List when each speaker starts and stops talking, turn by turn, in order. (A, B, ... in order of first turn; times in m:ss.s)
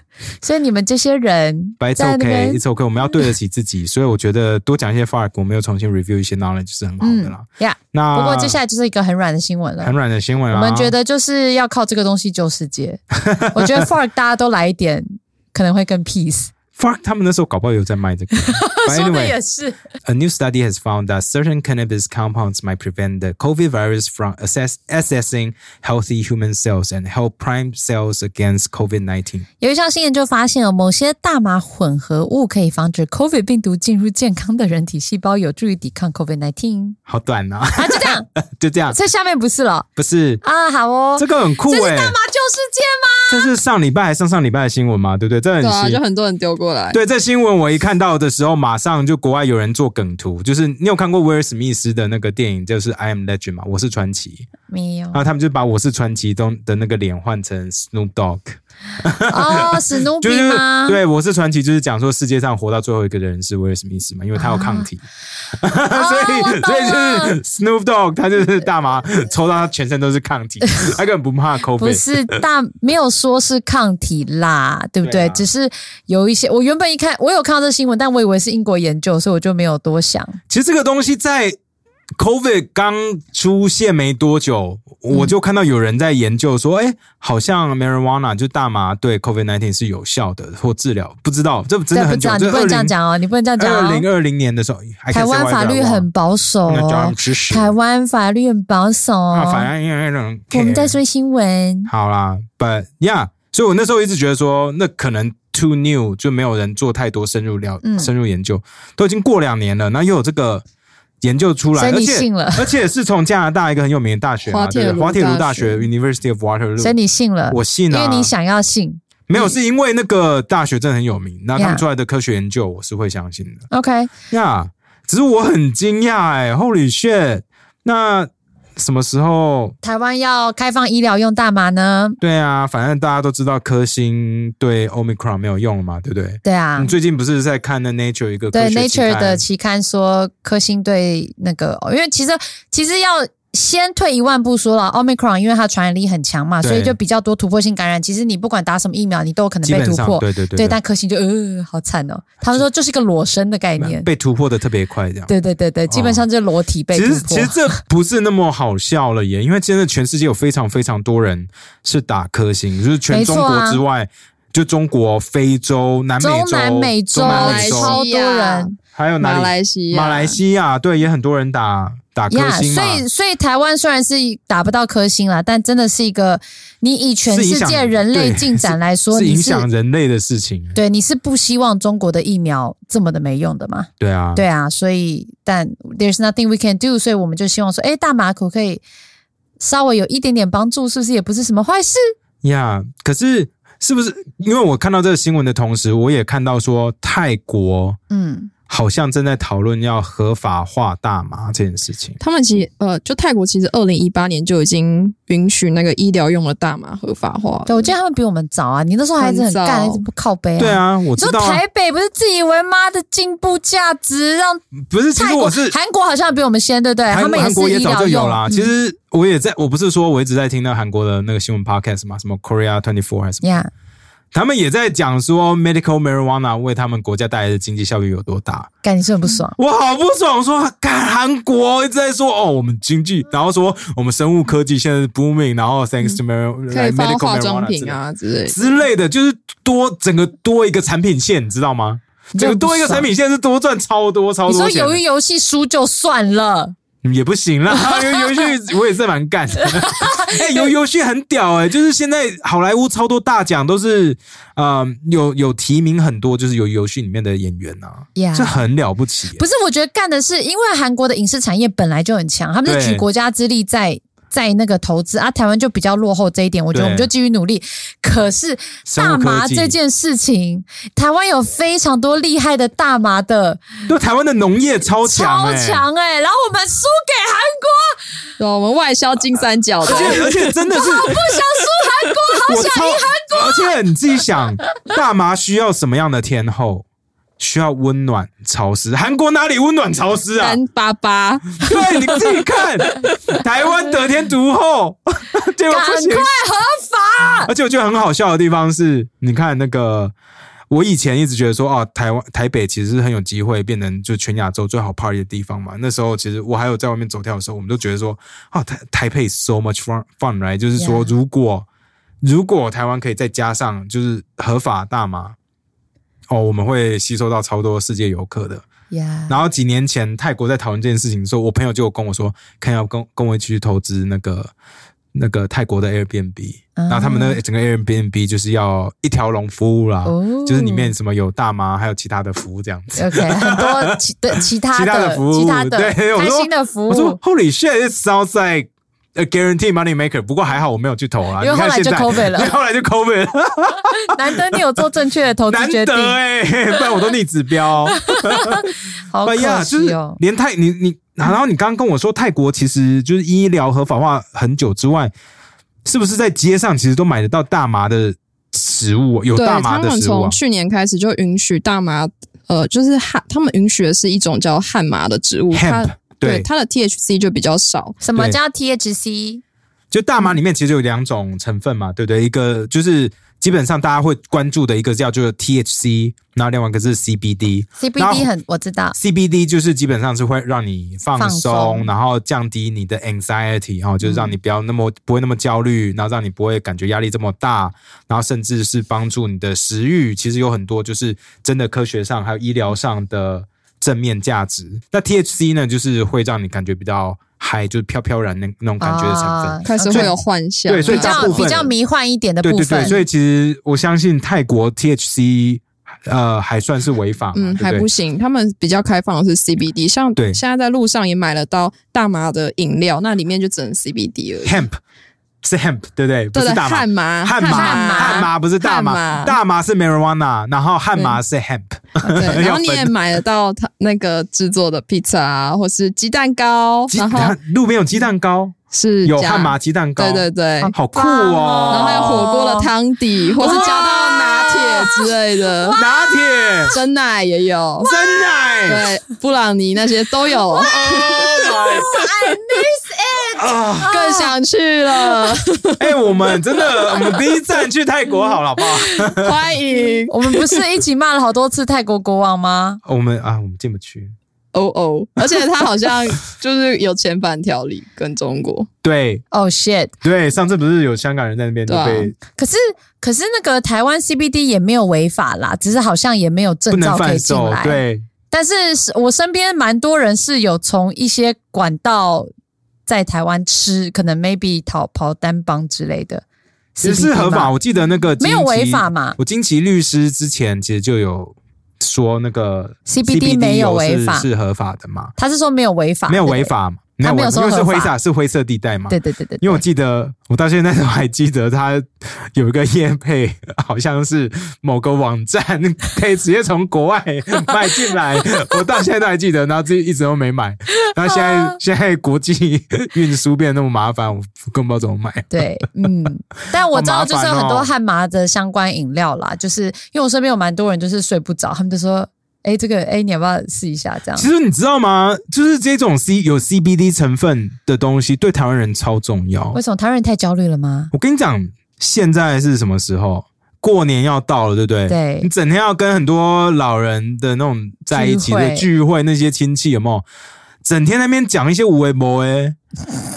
0:00.4-0:02.6 A
0:01.8-0:08.6 B
0:07.0-0:09.9 A
0:09.8-0:10.9 B
0:10.5-0:16.5 A
0:13.1-0:13.8 B
0:16.8-0:19.4 B
0:18.4-0:19.8 A
0:20.0-0:29.4 B
0:29.6-0:37.0 A
0:37.1-0:39.0 B
0:37.8-0:38.2 A
0:38.9-0:39.9 A
0:40.0-0:40.4 B
0:40.4-0:43.5 A
0:41.2-0:42.2 B
0:43.3-0:46.0 B
0:45.6-0:47.0 C
0:46.9-0:54.5 B
0:54.7-0:55.2 A
0:55.1-1:05.0 B
0:59.3-1:01.0 A
1:04.4-1:04.9 A
1:05.5-1:12.4 B
1:05.9-1:07.4 A
1:11.8-1:20.4 A
1:15.0-1:15.4 B
1:20.5-1:21.6 B
1:22.2-1:32.9 B
1:31.9-1:34.0 A
1:33.6-1:36.1 B
1:35.1-1:39.7 A
1:36.7-1:37.7 B
1:39.3-1:41.0 B
1:40.5-1:41.9 A
1:41.9-1:50.6 B
1:47.8-1:48.1 A
1:51.2-1:56.9 B
1:51.8-1:52.7 A
1:54.5-1:55.8 C
1:56.8-1:59.6 A
1:57.5-1:58.3 B
1:59.3-2:03.6 B
2:01.6-2:01.8 A
2:03.7-2:04.1 A
2:04.3-2:09.8 B
2:09.8-2:12.2 A
2:12.2-2:19.4 B
2:16.4-2:16.9 A
2:18.5-2:34.1 A
2:26.6-2:27.0 B
2:29.6-2:30.8 B
2:33.8-2:35.3 B
2:35.3-2:37.8 A
2:35.9-2:36.2 B
2:36.9-2:48.0 B
2:43.1-2:43.8 A
2:46.2-2:48.7 A
2:47.2-2:50.4 C
2:48.9-2:53.0 B
2:52.3-2:59.6 A
2:57.3-3:00.8 B
3:00.7-3:08.8 A
3:04.0-3:04.4 B
3:09.6-3:12.1 A
3:12.4-3:18.0 B
3:18.1-3:18.5 A
3:18.7-3:22.2 B
3:22.2-3:27.9 C
3:27.6-3:38.7 A
3:29.2-3:30.0 C
3:30.6-3:31.6 B
3:34.8-3:35.8 B
3:37.1-3:43.6 B
3:43.4-3:43.7 A
3:44.3-3:48.7 B
3:48.8-3:49.6 A
3:49.6-4:05.0 B
3:56.7-3:58.8 C
4:02.3-4:03.1 A
4:04.5-4:06.7 A
4:07.0-4:19.4 B
4:07.7-4:08.5 A
4:09.6-4:10.7 A
4:18.2-4:18.6 A
4:19.4-4:33.6 A
4:22.6-4:23.0 B
4:26.7-4:27.1 B
4:28.8-4:29.8 B
4:33.9-4:35.8 B
4:35.0-4:38.0 A
4:38.4-4:40.6 C
4:39.8-4:41.2 B
4:39.9-4:43.8 A
4:42.5-4:46.8 B
4:47.4-4:50.6 B
4:50.4-4:52.4 C
4:51.6-4:56.3 B
4:55.7-4:57.5 A
4:57.5-5:00.1 B
5:00.7-5:11.6 B
5:10.8-5:11.1 A
5:12.2-5:15.4 B
5:16.3-5:18.6 B
5:18.9-5:19.4 A
5:19.3-5:24.5 B
5:25.1-5:44.6 B
5:26.8-5:27.4 A
5:30.0-5:30.9 A
5:33.0-5:37.2 A
5:41.4-5:42.5 A
5:44.0-5:46.2 A
5:45.5-5:48.7 B
5:48.0-5:50.2 A
5:49.2-5:55.1 B
5:55.8-6:00.4 B
5:59.4-6:08.0 C
6:05.5-6:06.5 B
6:08.0-6:09.4 A
6:09.9-6:18.3 B
6:17.8-6:19.0 A
6:18.9-6:40.1 B
6:21.2-6:21.9 A
6:24.0-6:24.3 A
6:38.8-6:40.2 A
6:39.6-6:41.4 C
6:40.6-6:41.7 B
6:40.8-6:43.0 A
6:42.4-6:47.9 B
6:47.3-6:54.6 C
6:54.4-6:54.8 B
6:55.4-7:02.9 B
6:56.3-6:59.4 C
6:57.4-6:58.3 A
7:02.0-7:07.4 C
7:06.9-7:12.3 B
7:08.7-7:10.7 C
7:10.6-7:12.7 A
7:11.7-7:15.8 C
7:13.4-7:14.3 B
7:13.4-7:16.8 A
7:15.8-7:16.7 B
7:16.7-7:17.9 C
7:17.8-7:18.8 B
7:17.8-7:18.8 A
7:18.6-7:22.3 C
7:20.5-7:24.3 A
7:20.6-7:21.9 B
7:23.4-7:24.0 B
7:23.9-7:27.1 C
7:25.1-7:25.4 A
7:25.8-7:29.4 B
7:29.0-7:30.6 C
7:30.1-7:32.8 A
7:32.8-7:34.1 B
7:34.5-7:38.7 C
7:38.8-7:39.2 B
7:39.3-7:39.9 A
7:40.0-7:42.1 B
7:41.7-7:42.1 C
7:42.4-7:52.3 A
7:46.7-7:48.0 B
7:52.9-7:56.2 A
7:56.8-7:57.5 A
7:56.8-8:05.1 B
7:58.2-7:59.2 A
8:02.8-8:04.3 A
8:05.2-8:07.9 A
8:06.1-8:25.4 B
8:08.9-8:09.6 A
8:21.1-8:21.5 A
8:25.3-8:34.3 A
8:26.7-8:27.7 B
8:34.2-8:39.6 B
8:39.5-8:40.9 A
8:40.9-8:50.0 B
8:44.9-8:45.3 A
8:47.9-8:48.7 A
8:50.6-8:52.6 B